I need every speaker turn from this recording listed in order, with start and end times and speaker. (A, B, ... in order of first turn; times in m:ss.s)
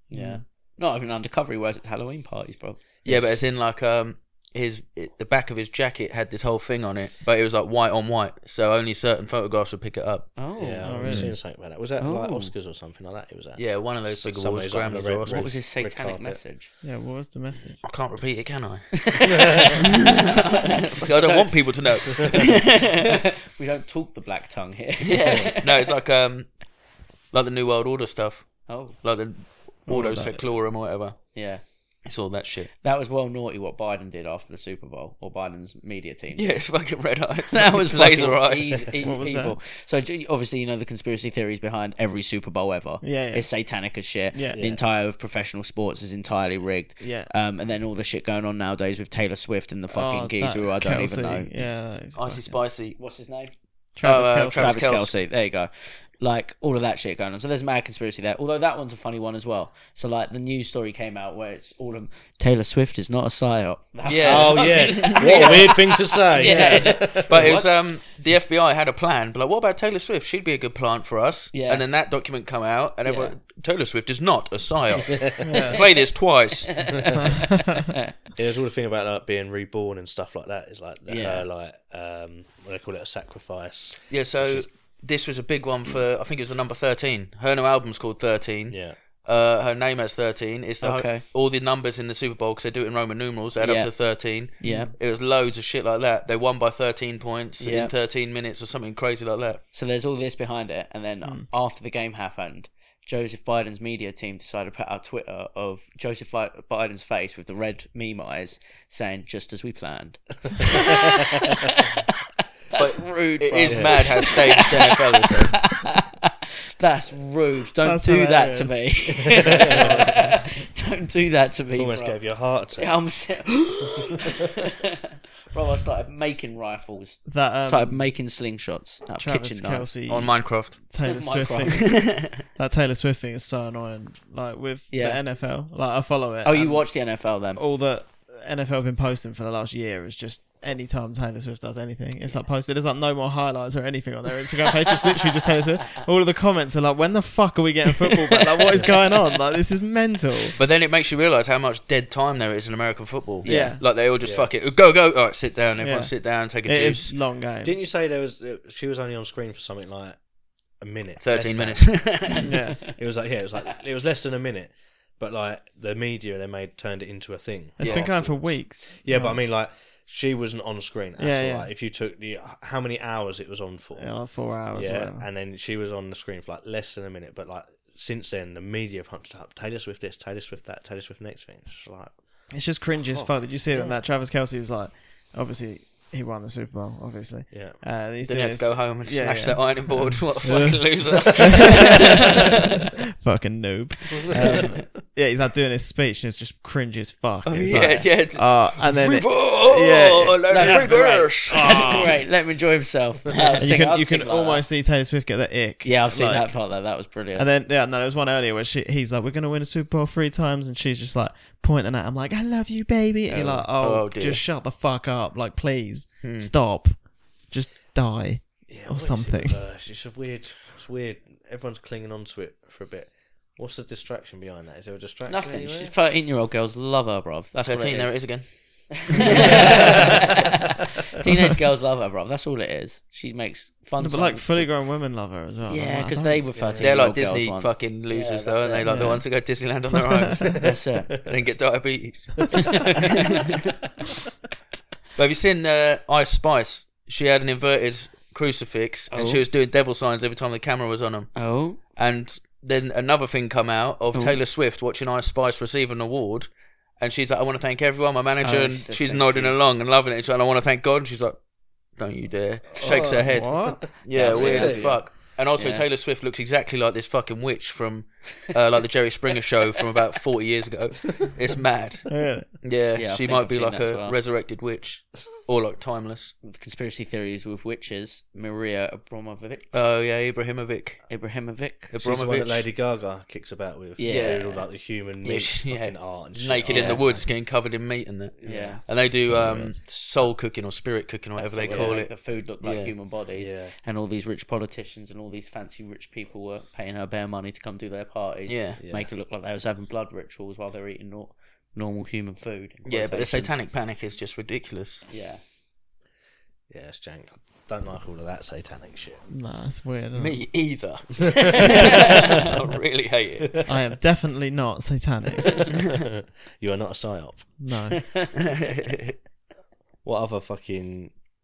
0:00.1-0:02.8 A
0:00.1-0:00.4 B
0:03.0-0:03.4 C
0:03.0-0:10.3 D
0:10.4-0:11.2 A
0:10.6-0:16.4 C
0:10.8-0:11.3 B
0:12.0-0:12.5 A
0:13.6-0:15.5 D
0:15.3-0:16.7 A
0:16.8-0:17.8 B
0:17.8-0:19.1 D
0:19.0-0:25.9 A
0:19.2-0:19.7 C
0:19.8-0:22.9 D
0:25.0-0:26.6 D
0:27.3-0:31.3 D
0:28.7-0:29.0 A
0:29.9-0:30.4 B
0:31.3-0:31.6 A
0:32.0-0:32.7 D
0:32.8-0:36.4 A
0:36.3-0:38.9 D
0:37.5-0:51.5 A
0:39.0-0:39.6 B
0:43.0-0:43.5 B
0:44.3-0:44.6 B
0:44.5-0:44.8 C
0:47.0-0:47.3 B
0:49.9-0:52.6 B
0:52.1-0:53.0 D
0:53.0-0:53.5 A
0:54.0-0:54.7 B
0:54.0-0:55.1 D
0:54.5-1:07.7 A
1:04.0-1:05.7 D
1:04.2-1:07.5 C
1:06.4-1:07.0 B
1:07.3-1:16.9 D
1:11.5-1:11.8 A
1:13.0-1:13.3 A
1:15.4-1:15.8 B
1:15.7-1:16.0 A
1:16.7-1:18.1 A
1:16.9-1:17.2 C
1:18.3-1:24.6 C
1:21.1-1:21.4 A
1:24.1-1:39.6 D
1:28.7-1:29.0 C
1:30.8-1:31.2 A
1:33.6-1:33.9 A
1:34.6-1:34.9 A
1:34.6-1:34.9 B
1:37.6-1:37.9 A
1:39.7-1:52.1 A
1:52.7-2:02.2 A
1:52.7-1:55.7 D
1:53.6-1:54.1 C
1:57.8-2:00.2 B
1:59.3-2:00.2 C
2:01.7-2:03.0 C
2:02.7-2:09.9 A
2:07.3-2:08.1 B
2:09.2-2:16.9 B
2:10.1-2:10.8 D
2:11.0-2:12.0 A
2:11.7-2:12.4 D
2:14.9-2:15.2 A
2:16.4-2:17.6 A
2:17.6-2:30.6 B
2:28.7-2:29.0 A
2:30.6-2:37.2 D
2:33.4-2:33.8 A
2:33.4-2:33.8 B
2:34.2-2:34.5 C
2:35.8-2:37.8 B
2:37.6-2:40.2 C
2:40.8-2:42.1 C
2:41.2-2:42.5 D
2:42.2-2:42.5 A
2:42.4-2:42.9 B
2:42.9-2:54.2 C
2:47.8-2:49.4 B
2:47.8-2:48.1 D
2:51.2-2:51.7 B
2:54.0-2:55.2 B
2:54.7-3:02.2 C
3:02.5-3:10.8 B
3:02.9-3:04.0 C
3:07.5-3:07.8 C
3:08.2-3:12.5 D
3:10.4-3:11.7 C
3:11.4-3:22.1 B
3:14.3-3:14.7 A
3:17.4-3:22.1 D
3:20.5-3:24.6 A
3:21.6-3:22.1 C
3:23.6-3:26.6 B
3:25.8-3:27.5 A
3:27.3-3:39.6 B
3:33.3-3:34.4 D
3:36.2-3:36.5 D
3:38.7-3:45.9 C
3:45.2-3:48.4 A
3:47.6-3:49.9 D
3:49.1-3:54.7 A
3:49.3-3:50.2 C
3:54.0-3:56.4 B
3:55.7-3:59.1 A
3:56.5-3:57.0 C
3:56.8-4:00.6 D
3:58.8-3:59.2 B
4:00.0-4:00.5 B
4:00.6-4:01.1 A
4:01.2-4:03.5 D
4:02.5-4:03.2 A
4:05.2-4:21.4 D
4:09.1-4:09.4 A
4:11.3-4:11.8 A
4:18.4-4:19.6 A
4:22.0-4:36.3 D
4:22.8-4:23.9 B
4:22.8-4:25.0 C
4:24.1-4:25.8 A
4:32.1-4:32.5 B
4:32.9-4:34.2 A
4:36.4-4:39.7 A
4:39.7-4:41.0 D
4:41.1-4:41.9 A
4:41.9-4:42.7 D
4:42.0-4:47.3 C
4:44.0-4:44.6 A
4:44.1-4:44.5 D
4:45.2-4:52.9 D
4:46.7-4:47.0 A
4:48.4-4:48.9 C
4:48.4-4:48.8 A
4:49.2-4:49.7 B
4:51.3-5:03.6 A
4:51.6-4:52.0 C
4:53.4-4:53.7 C
4:58.5-4:58.8 D
4:58.8-4:59.1 C
5:02.8-5:05.1 D
5:05.1-5:05.4 A
5:06.7-5:09.3 C
5:09.3-5:10.4 B
5:10.1-5:13.6 D
5:11.8-5:12.1 A
5:13.6-5:15.7 B
5:15.9-5:17.6 C
5:17.6-5:18.2 B
5:18.4-5:19.2 D
5:20.0-5:21.1 C